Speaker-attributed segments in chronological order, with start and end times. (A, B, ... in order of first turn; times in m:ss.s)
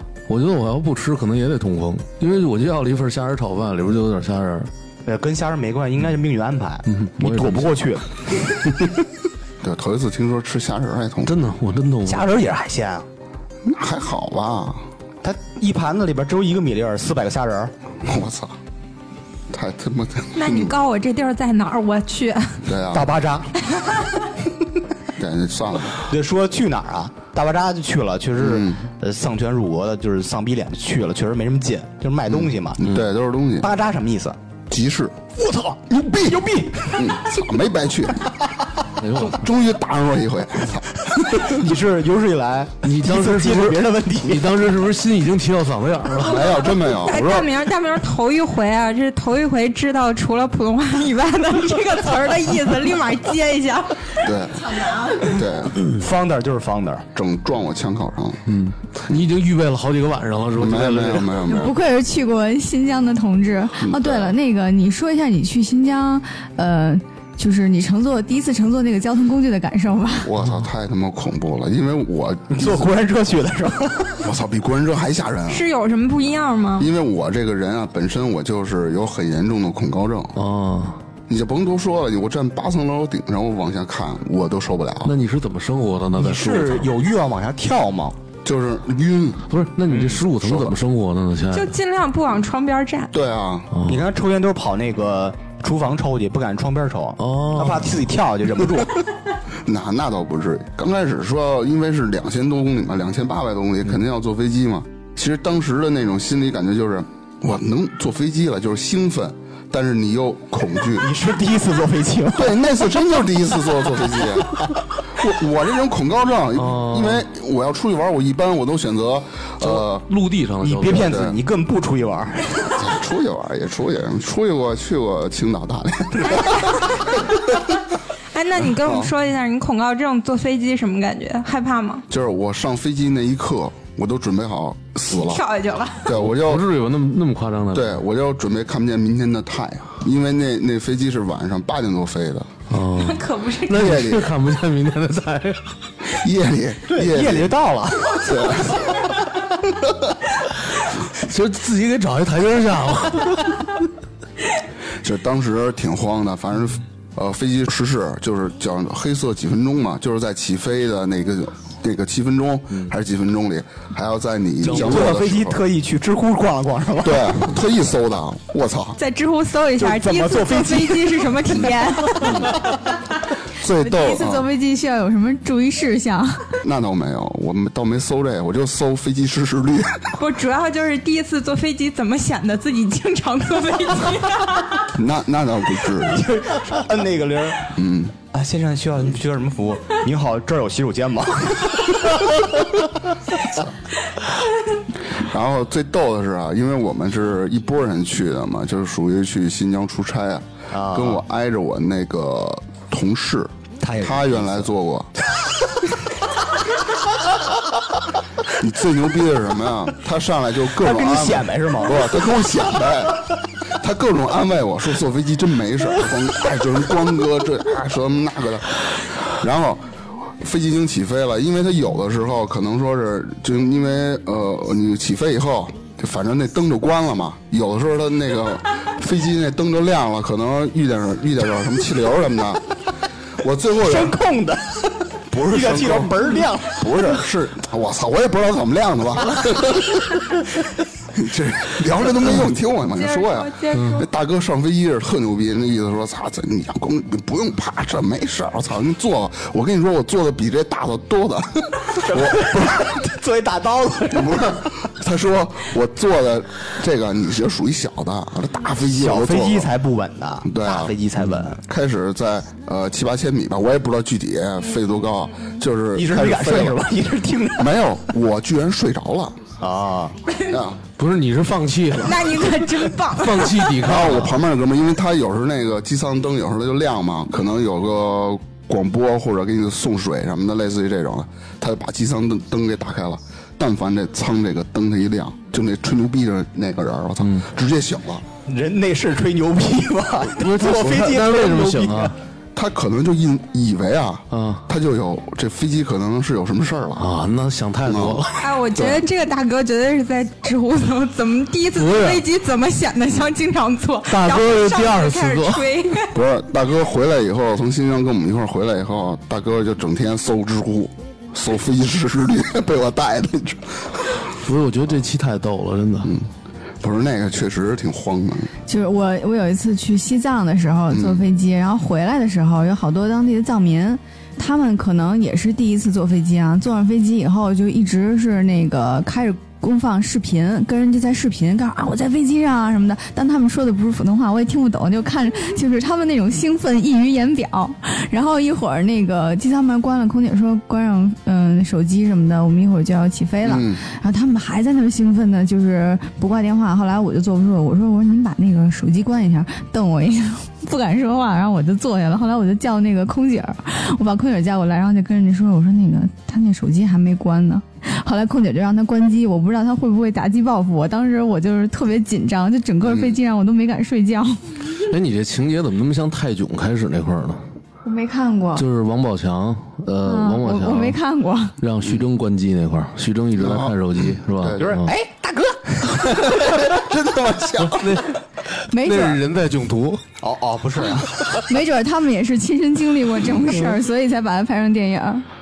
0:00.3-0:04.7 A
0:05.0-0:08.8 B
0:06.9-0:07.7 A
0:09.6-0:11.4 C
0:11.2-0:12.3 A
0:12.0-0:13.0 B
0:13.6-0:14.8 C
0:15.2-0:17.7 B
0:18.0-0:18.5 C
0:19.5-0:20.8 C
0:20.4-0:22.7 D
0:22.6-0:23.1 C
0:22.9-0:23.5 B
0:23.7-0:24.0 D
0:25.2-0:26.0 C
0:26.0-0:32.8 B
0:28.4-0:28.8 C
0:32.3-0:33.7 C
0:33.6-0:34.4 B
0:34.7-0:35.3 C
0:35.3-0:37.2 B
0:35.9-0:36.4 C
0:36.9-0:38.3 C
0:38.3-0:38.6 B
0:39.0-0:39.4 A
0:39.2-0:41.6 C
0:41.2-0:44.6 B
0:42.8-0:46.6 A
0:46.2-0:47.5 C
0:46.9-0:54.3 D
0:54.2-0:55.8 C
0:54.8-0:55.2 E
0:55.8-0:57.0 B
0:57.1-0:58.4 C
0:58.5-1:01.4 A
1:00.6-1:01.8 C
1:01.4-1:10.3 E
1:03.8-1:04.3 C
1:10.2-1:12.9 C
1:12.5-1:14.2 B
1:14.2-1:15.6 C
1:15.5-1:16.9 D
1:16.8-1:20.4 C
1:20.4-1:21.0 A
1:21.3-1:25.2 C
1:25.0-1:26.9 A
1:26.2-1:28.2 B
1:28.4-1:29.5 C
1:29.5-1:31.8 A
1:29.9-1:30.2 B
1:30.3-1:30.8 C
1:31.5-1:33.1 D
1:33.1-1:33.7 C
1:33.7-1:34.0 A
1:33.8-1:39.0 B
1:37.2-1:38.0 A
1:39.6-1:51.1 C
1:51.0-1:52.6 B
1:52.3-1:54.6 C
1:54.2-1:54.7 B
1:55.1-2:00.0 C
1:56.5-1:57.2 A
1:59.6-2:01.2 A
2:00.6-2:02.8 B
2:00.9-2:01.4 C
2:02.8-2:07.0 C
2:08.3-2:12.0 D
2:08.6-2:09.1 C
2:12.1-2:15.4 C
2:15.2-2:16.1 D
2:16.0-2:16.7 C
2:16.1-2:18.0 A
2:17.7-2:22.5 C
2:22.7-2:25.8 A
2:23.0-2:23.8 D
2:23.7-2:24.3 C
2:26.1-2:27.5 C
2:26.9-2:29.1 B
2:28.1-2:29.0 C
2:31.1-2:33.8 A
2:35.0-2:45.6 C
2:44.6-2:45.2 A
2:44.6-2:47.6 B
2:47.0-2:49.0 C
2:49.0-2:52.5 D
2:49.8-2:51.6 B
2:52.2-2:52.6 C
2:53.5-2:54.5 C
2:53.8-2:56.4 E
2:56.6-3:00.1 C
3:00.2-3:04.8 D
3:04.9-3:06.2 C
3:05.9-3:07.7 B
3:07.7-3:08.2 C
3:08.3-3:13.6 B
3:15.1-3:25.1 C
3:20.7-3:21.2 B
3:23.8-3:24.7 B
3:25.4-3:25.9 B
3:28.5-3:39.8 C
3:30.8-3:32.6 B
3:40.4-3:52.6 C
3:53.4-3:54.2 C
3:53.8-3:57.2 B
3:55.3-4:00.3 C
3:59.3-3:59.7 B
4:01.1-4:12.8 C
4:02.9-4:04.1 D
4:03.7-4:04.0 A
4:11.9-4:14.6 B
4:14.1-4:19.7 C
4:18.8-4:21.6 B
4:20.4-4:21.0 C
4:21.6-4:26.8 C
4:25.9-4:27.8 B
4:27.6-4:29.4 C
4:29.6-4:30.2 B
4:30.5-4:30.8 C
4:31.0-4:34.4 A
4:32.0-4:33.7 D
4:33.8-4:48.2 C
4:48.5-4:52.1 B
4:50.3-4:52.2 A
4:52.5-4:57.1 C
4:54.3-4:54.6 A
4:57.0-4:58.4 A
4:57.8-4:59.0 C
4:58.4-5:06.2 D
5:01.8-5:02.2 A
5:04.1-5:05.7 A
5:06.1-5:14.2 C
5:14.4-5:16.1 A
5:16.0-5:18.5 C
5:18.7-6:04.4 E
5:20.9-5:21.2 C
5:43.4-5:43.8 C
6:02.8-6:03.1 C
6:04.8-6:07.4 A
6:07.8-6:08.6 E
6:08.6-6:11.0 A
6:10.0-6:11.6 E
6:11.6-6:14.9 A
6:13.4-6:14.7 C
6:14.6-6:16.7 B
6:16.4-6:18.0 C
6:17.6-6:18.2 A
6:18.7-6:19.2 E
6:18.7-6:20.0 A
6:20.2-6:21.2 B
6:21.4-6:25.2 E